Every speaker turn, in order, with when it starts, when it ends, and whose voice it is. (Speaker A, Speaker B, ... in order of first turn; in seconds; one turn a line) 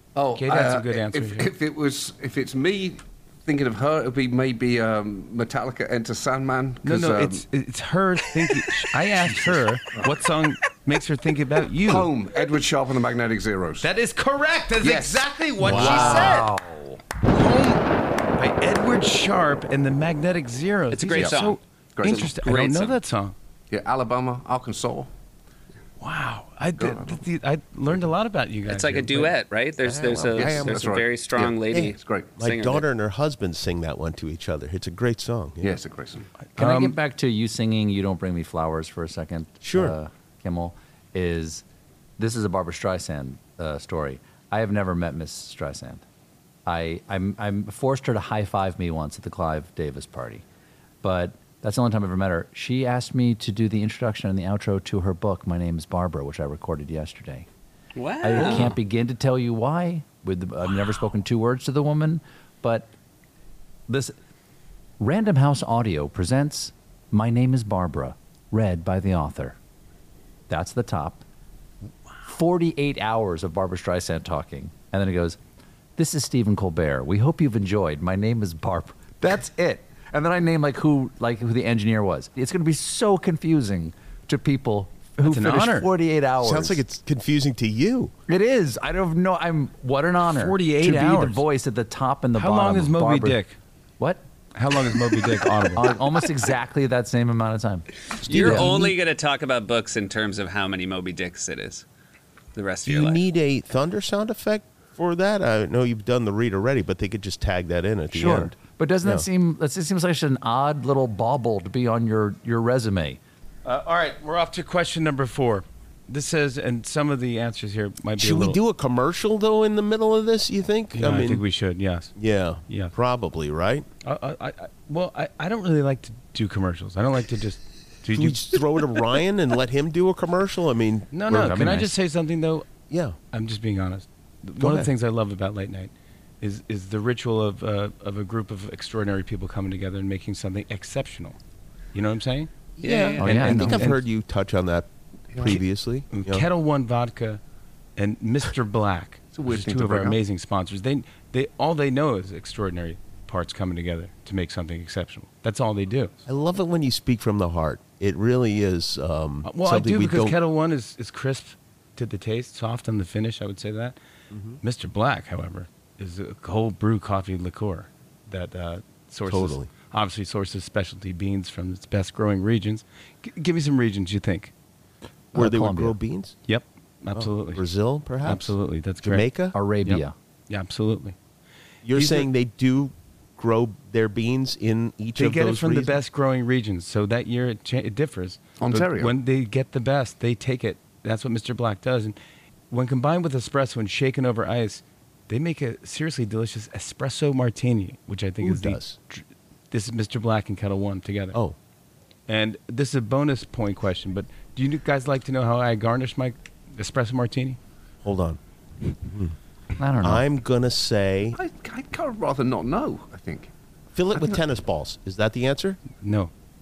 Speaker A: 0.1-7.4
Speaker B: 0.3-1.5
Speaker B: 6.8-12.1
Speaker A: 11.8-13.9
Speaker B: 13.8-16.5
Speaker A: 14.8-16.4
Speaker C: 15.6-17.0
Speaker B: 17.2-23.3
Speaker D: 20.9-23.0
Speaker A: 21.1-21.4
Speaker A: 21.9-22.4
Speaker A: 23.7-25.1
Speaker B: 26.0-29.4
Speaker A: 26.8-27.2
Speaker D: 28.7-32.8
Speaker E: 29.8-35.8
Speaker A: 30.3-32.3
Speaker A: 35.6-36.2
Speaker B: 36.5-37.0
Speaker C: 36.6-41.6
Speaker E: 39.6-39.9
Speaker C: 42.2-46.0
Speaker C: 46.6-50.4
Speaker C: 51.0-57.5
Speaker D: 58.0-58.7
Speaker C: 58.2-62.9
Speaker C: 63.9-64.2
Speaker C: 65.0-69.6
Speaker C: 70.5-71.2
Speaker C: 72.2-75.4
Speaker C: 76.0-86.8
Speaker B: 85.2-85.9
Speaker E: 86.4-88.1
Speaker C: 88.3-93.4
Speaker B: 90.2-91.4
Speaker B: 92.3-93.6
Speaker B: 94.5-95.9
Speaker C: 95.7-99.0
Speaker B: 98.3-98.6
Speaker D: 98.3-101.8
Speaker E: 98.3-98.7
Speaker D: 102.5-103.2
Speaker E: 102.8-109.2
Speaker C: 108.1-113.2
Speaker B: 113.6-118.6
Speaker E: 118.2-121.4
Speaker B: 120.9-122.1
Speaker E: 122.2-123.8
Speaker B: 122.7-122.9
Speaker B: 124.0-128.4
Speaker E: 128.1-131.5
Speaker B: 131.1-132.7
Speaker C: 131.3-131.9
Speaker E: 132.9-133.2
Speaker B: 133.3-141.4
Speaker E: 134.6-134.9
Speaker B: 141.9-142.5
Speaker E: 142.8-146.4
Speaker D: 142.8-143.2
Speaker B: 143.2-144.0
Speaker C: 143.2-143.9
Speaker B: 146.1-147.4
Speaker B: 148.0-156.1
Speaker A: 149.3-150.2
Speaker E: 156.2-160.3
Speaker B: 159.4-163.9
Speaker E: 164.3-164.6
Speaker B: 164.6-174.5
Speaker E: 169.2-169.7
Speaker C: 175.3-176.0
Speaker E: 175.3-176.4
Speaker B: 176.5-177.6
Speaker E: 177.1-179.6
Speaker B: 178.2-179.3
Speaker C: 179.5-180.1
Speaker B: 179.8-181.1
Speaker E: 181.8-186.0
Speaker B: 181.9-182.3
Speaker B: 185.2-192.2
Speaker A: 188.6-189.1
Speaker B: 192.7-201.4
Speaker E: 198.4-199.0
Speaker B: 202.3-207.6
Speaker E: 208.0-208.4
Speaker E: 209.0-209.3
Speaker C: 209.8-210.2
Speaker E: 210.0-211.4
Speaker A: 211.3-213.5
Speaker E: 213.9-215.8
Speaker B: 216.0-216.3